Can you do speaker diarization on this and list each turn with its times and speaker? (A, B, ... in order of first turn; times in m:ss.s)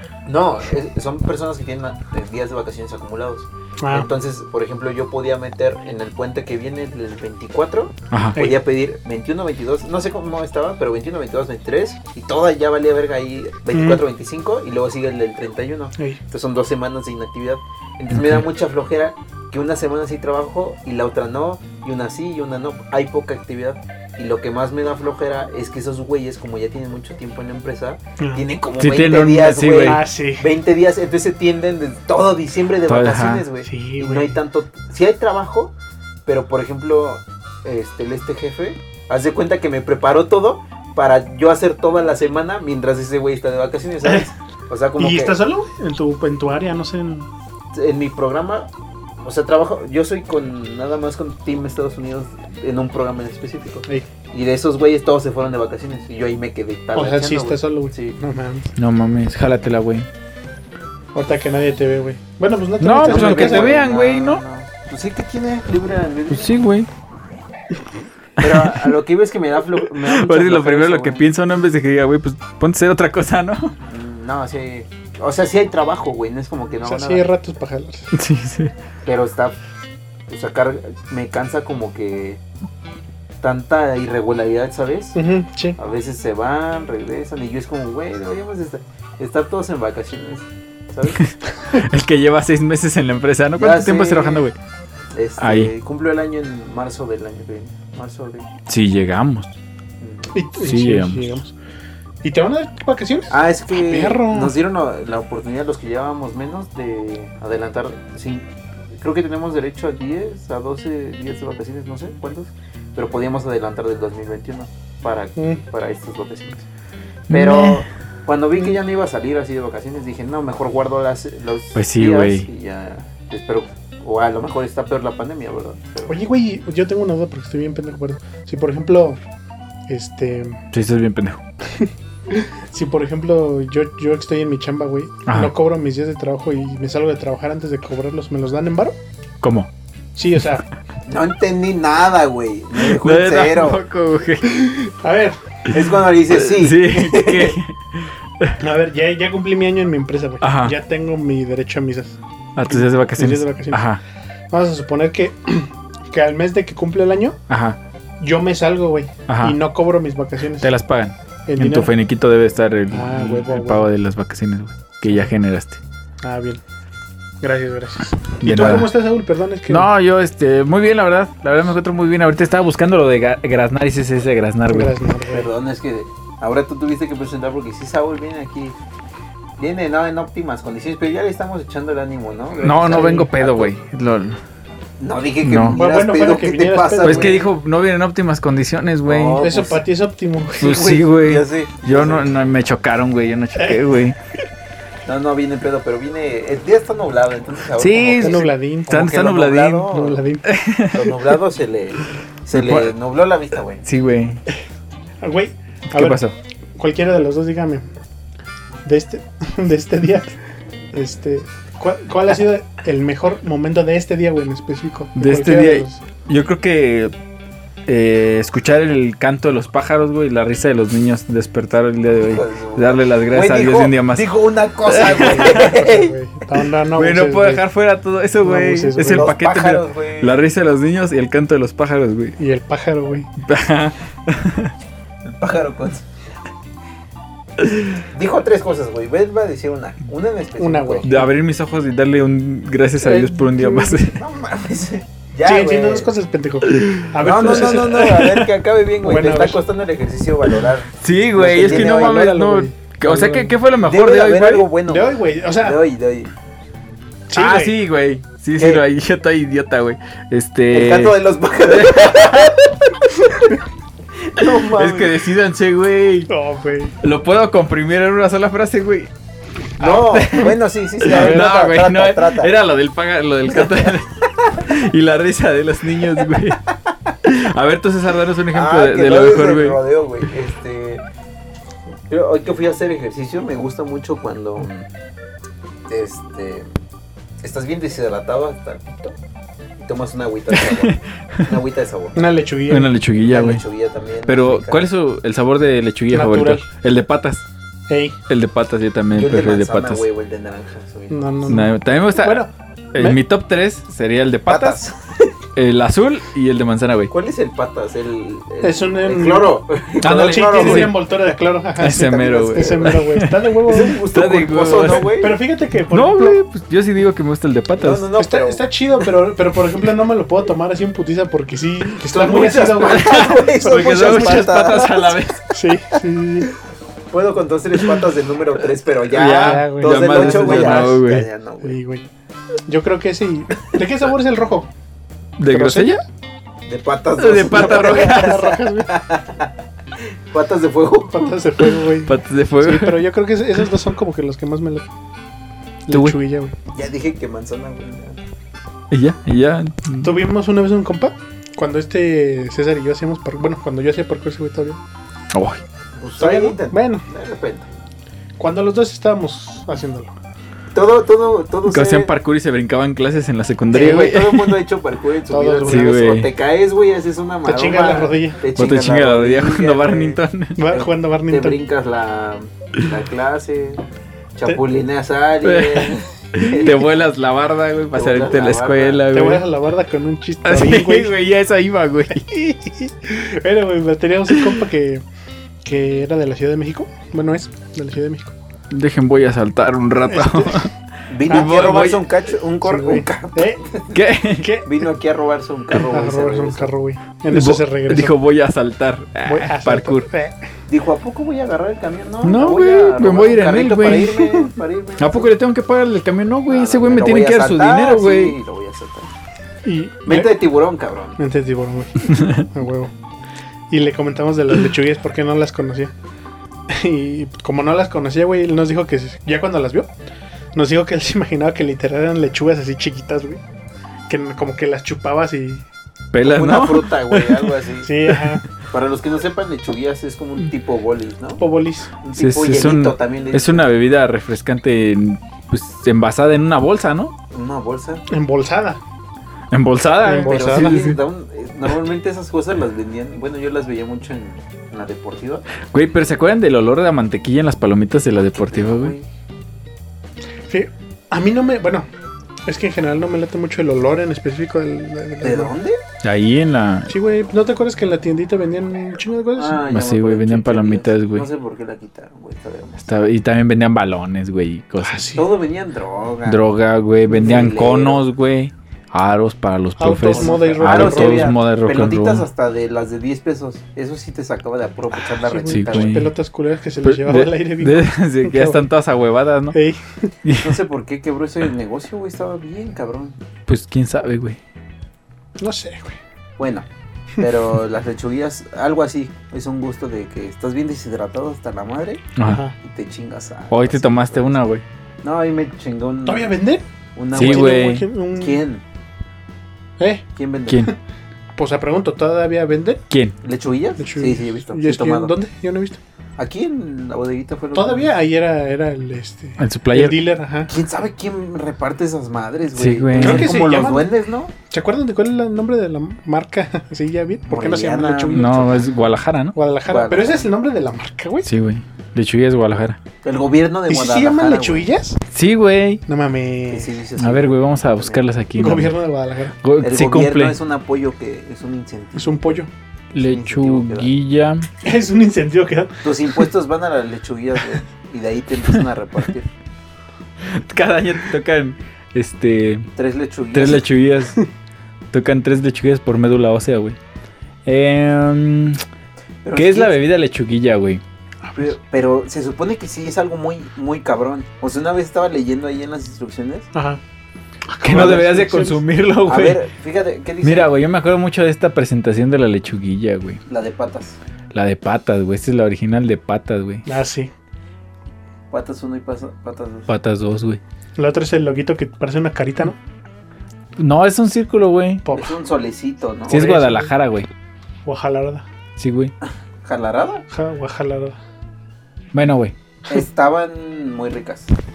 0:00.3-0:35.7 A
0:03.8-0:04.1 B
0:08.1-0:08.4 C
0:13.7-0:14.0 B
0:18.1-0:18.4 C
0:28.2-0:28.5 B
0:28.8-0:30.1 C
0:29.8-0:30.5 B
0:32.9-0:33.5 C
0:33.6-0:34.4 B
0:36.2-0:45.4 A
0:45.0-0:47.3 B
0:47.7-0:58.2 A
0:56.9-0:58.7 B
0:58.8-1:00.1 C
1:01.2-1:03.8 B
1:02.8-1:04.4 C
1:03.0-1:06.6 A
1:06.3-1:06.9 C
1:08.4-1:11.2 A
1:08.4-1:08.9 C
1:09.8-1:13.8 C
1:13.9-1:17.3 A
1:16.8-1:18.1 B
1:18.1-1:18.7 C
1:19.0-1:19.6 A
1:20.3-1:22.4 A
1:23.4-1:25.2 A
1:25.2-1:25.8 B
1:25.8-1:31.2 A
1:31.2-1:34.6 C
1:33.6-1:34.4 A
1:35.2-1:38.5 A
1:35.4-1:35.7 C
1:38.7-1:39.6 C
1:40.0-1:40.4 A
1:40.3-1:41.6 B
1:40.6-1:41.3 C
1:42.2-1:44.6 B
1:43.3-1:48.5 A
1:49.0-1:56.7 A
1:55.4-1:55.6 B
1:57.3-1:57.9 C
1:57.3-2:06.2 A
2:01.8-2:02.4 C
2:06.1-2:09.2 B
2:09.9-2:10.6 B
2:10.7-2:11.4 C
2:11.7-2:19.0 B
2:15.3-2:15.5 C
2:19.4-2:19.7 C
2:20.2-2:20.7 B
2:21.1-2:23.8 A
2:22.8-2:24.6 C
2:24.4-2:25.4 B
2:25.7-2:27.6 A
2:25.8-2:28.6 C
2:28.6-2:33.9 B
2:30.4-2:30.8 C
2:32.6-2:34.0 C
2:34.5-2:37.4 B
2:37.5-2:37.8 C
2:38.2-2:40.7 B
2:39.3-2:39.6 C
2:40.6-2:45.8 C
2:41.5-2:41.9 B
2:42.9-2:43.9 B
2:46.2-2:46.6 B
2:47.4-2:49.9 B
2:48.4-2:48.9 C
2:49.7-2:54.9 C
2:54.7-2:55.5 B
2:55.3-2:58.8 A
2:59.6-3:03.7 A
3:02.6-3:03.3 B
3:02.6-3:04.4 C
3:05.0-3:07.5 A
3:05.4-3:05.8 C
3:05.7-3:07.4 B
3:07.0-3:09.4 C
3:09.1-3:09.9 A
3:09.4-3:10.9 B
3:10.6-3:14.2 C
3:10.6-3:12.4 A
3:13.6-3:14.0 B
3:15.1-3:20.2 A
3:17.8-3:19.9 C
3:18.2-3:19.1 B
3:19.9-3:20.4 B
3:20.4-3:21.2 C
3:20.9-3:23.8 A
3:22.5-3:22.9 C
3:23.8-3:24.4 C
3:25.2-3:26.2 B
3:25.9-3:26.4 C
3:26.8-3:27.8 B
3:28.8-3:30.4 B
3:30.9-3:36.0 B
3:35.2-3:37.1 C
3:37.9-3:44.3 C
3:42.3-3:46.1 A
3:44.9-3:45.7 C
3:45.0-3:47.6 B
3:46.9-3:52.4 C
3:48.4-3:49.3 B
3:49.0-3:50.4 A
3:52.4-3:53.3 B
3:53.4-3:54.7 C
3:55.2-3:56.1 A
3:58.0-4:01.1 A
4:00.6-4:01.2 B
4:01.0-4:04.2 C
4:03.0-4:04.0 B
4:04.1-4:06.1 A
4:05.4-4:08.3 B
4:06.7-4:08.4 C
4:07.2-4:12.3 A
4:09.0-4:09.6 B
4:11.0-4:14.7 C
4:11.4-4:13.6 B
4:13.8-4:16.3 A
4:14.9-4:15.8 B
4:17.3-4:17.8 B
4:17.4-4:22.6 C
4:18.6-4:18.8 A
4:20.7-4:22.7 A
4:24.2-4:25.2 A
4:24.4-4:26.3 C
4:26.3-4:26.9 B
4:27.0-4:29.1 C
4:29.8-4:32.5 A
4:29.8-4:36.6 C
4:33.6-4:34.7 A
4:37.2-4:39.8 C
4:38.5-4:41.0 A
4:42.1-4:44.9 A
4:45.9-4:46.7 A
4:47.4-4:49.2 A
4:49.8-4:52.2 A
4:50.5-4:51.5 C
4:52.2-4:52.9 B
4:52.7-4:53.6 C
4:53.2-4:54.8 A
4:54.3-4:57.4 C
4:56.1-4:56.7 B
4:57.9-4:58.2 B
4:58.3-5:00.0 C
4:59.1-5:01.6 A
5:01.1-5:03.2 B
5:01.4-5:04.8 C
5:04.5-5:05.3 A
5:05.6-5:07.1 C
5:07.1-5:10.9 A
5:08.6-5:14.0 B
5:10.0-5:11.0 C
5:11.8-5:15.2 C
5:11.9-5:13.0 A
5:13.7-5:15.4 A
5:14.8-5:16.4 B
5:15.9-5:18.1 C
5:17.8-5:18.7 A
5:18.2-5:24.9 B
5:22.0-5:25.4 A
5:22.8-5:25.4 C
5:25.5-5:26.5 B
5:27.1-5:31.8 A
5:29.1-5:31.3 C
5:29.2-5:31.0 B
5:31.6-5:32.1 B
5:32.7-5:34.7 B
5:35.4-5:36.0 C
5:35.4-5:36.0 B
5:36.7-5:39.5 A
5:37.2-5:38.4 C
5:37.4-5:38.9 B
5:40.3-5:41.4 A
5:41.1-5:44.8 B
5:41.6-5:43.1 C
5:45.8-5:46.6 B
5:45.9-5:46.2 C
5:46.7-5:48.2 A
5:48.9-5:50.1 C
5:50.0-5:54.8 B
5:55.3-5:55.6 C
5:56.0-5:57.7 A
5:56.2-5:57.1 B
5:58.4-6:00.1 B
6:00.7-6:02.1 A
6:01.7-6:04.6 C
6:03.7-6:13.8 A
6:03.7-6:04.1 B
6:05.3-6:06.0 B
6:05.6-6:06.3 C
6:07.4-6:08.4 B
6:08.6-6:10.6 C
6:10.6-6:11.6 B
6:14.4-6:16.8 A
6:15.4-6:19.4 C
6:17.9-6:19.1 A
6:19.1-6:21.1 B
6:20.4-6:22.3 C
6:22.3-6:25.0 B
6:24.3-6:24.6 C
6:25.6-6:28.3 B
6:28.7-6:30.7 C
6:30.1-6:30.7 B
6:31.1-6:34.0 A
6:31.3-6:32.0 C
6:31.3-6:33.6 B
6:33.9-6:34.5 C
6:34.3-6:34.8 B
6:34.6-6:36.7 A
6:35.8-6:38.2 B
6:37.3-6:40.1 C
6:39.3-6:40.4 B
6:40.7-6:45.3 A
6:42.2-6:44.3 C
6:45.0-6:48.4 C
6:46.5-6:49.1 A
6:49.6-6:50.4 B
6:50.1-6:51.2 A
6:51.2-6:52.9 B
6:52.1-6:52.4 C
6:53.7-6:55.9 B
6:56.7-6:59.9 B
7:00.6-7:03.4 B
7:04.1-7:05.6 B
7:06.1-7:07.5 C
7:06.2-7:07.9 A
7:07.8-7:08.4 B
7:08.7-7:11.4 A
7:11.4-7:11.9 B
7:12.0-7:13.7 A
7:12.2-7:17.2 C
7:17.3-7:18.0 A
7:18.1-7:18.8 B
7:19.5-7:21.0 C
7:20.0-7:20.8 B
7:20.3-7:25.5 A
7:25.7-7:28.9 C
7:28.3-7:29.1 A
7:30.5-7:31.9 B
7:32.4-7:35.5 B
7:35.2-7:35.8 A
7:36.0-7:36.9 C
7:36.9-7:39.6 B
7:39.3-7:42.9 A
7:39.7-7:41.3 C
7:42.8-7:45.1 C
7:44.8-7:45.2 B
7:45.2-7:46.4 A
7:46.3-7:52.3 C
7:47.1-7:48.0 A
7:49.8-7:51.3 B
7:50.1-7:56.0 A
7:55.1-7:58.6 B
7:55.5-7:56.1 C
7:56.8-7:59.6 C
7:59.5-8:00.1 B
8:00.2-8:00.6 C
8:00.3-8:03.2 A
8:03.5-8:04.4 C
8:05.4-8:06.0 B
8:06.4-8:12.0 A
8:12.2-8:12.4 C
8:12.2-8:12.6 B
8:12.6-8:14.4 A
8:13.5-8:14.6 C
8:15.0-8:16.3 A
8:16.1-8:18.4 B
8:17.0-8:18.6 A
8:17.2-8:17.8 C
8:19.8-8:20.0 B
8:20.2-8:20.7 A
8:21.4-8:22.8 B
8:22.9-8:23.2 C
8:23.2-8:25.1 A
8:23.8-8:25.8 B
8:26.2-8:27.9 A
8:27.6-8:30.5 B
8:29.4-8:30.0 C
8:30.5-8:34.3 A
8:32.6-8:33.4 C
8:33.0-8:33.9 B
8:34.5-8:38.7 B
8:37.3-8:38.7 A
8:38.1-8:39.4 C
8:39.4-8:41.3 B
8:39.7-8:40.2 A
8:41.2-8:42.8 C
8:43.0-8:44.7 A
8:43.7-8:45.0 B
8:45.1-8:45.8 C
8:45.9-8:46.7 B
8:46.5-8:48.0 A
8:47.0-8:48.7 C
8:48.4-8:49.4 B
8:49.4-8:50.4 C
8:49.6-8:52.4 A
8:52.0-8:52.5 B
8:52.9-8:54.5 C
8:53.0-8:53.9 A
8:54.6-8:56.3 B
8:55.8-8:59.3 A
9:00.2-9:02.7 C
9:02.8-9:03.6 A
9:03.3-9:04.2 C
9:04.9-9:06.8 C
9:07.4-9:08.6 C
9:09.2-9:09.8 A
9:09.4-9:10.8 C
9:11.2-9:11.5 B
9:11.4-9:16.5 A
9:16.5-9:16.8 B
9:17.5-9:18.6 B
9:17.6-9:19.4 C
9:17.7-9:18.1 A
9:19.1-9:20.5 A
9:20.2-9:23.2 C
9:23.3-9:24.0 A
9:24.3-9:26.6 C
9:26.6-9:27.1 B
9:28.3-9:29.7 A
9:29.7-9:30.4 C
9:30.8-9:32.6 B
9:33.6-9:34.8 C
9:34.8-9:35.2 B
9:34.9-9:36.4 A
9:36.1-9:37.1 C
9:36.1-9:36.7 B
9:37.6-9:38.3 B
9:38.6-9:38.9 C
9:39.0-9:40.0 A
9:40.1-9:41.0 B
9:41.9-9:42.4 C
9:42.7-9:44.3 A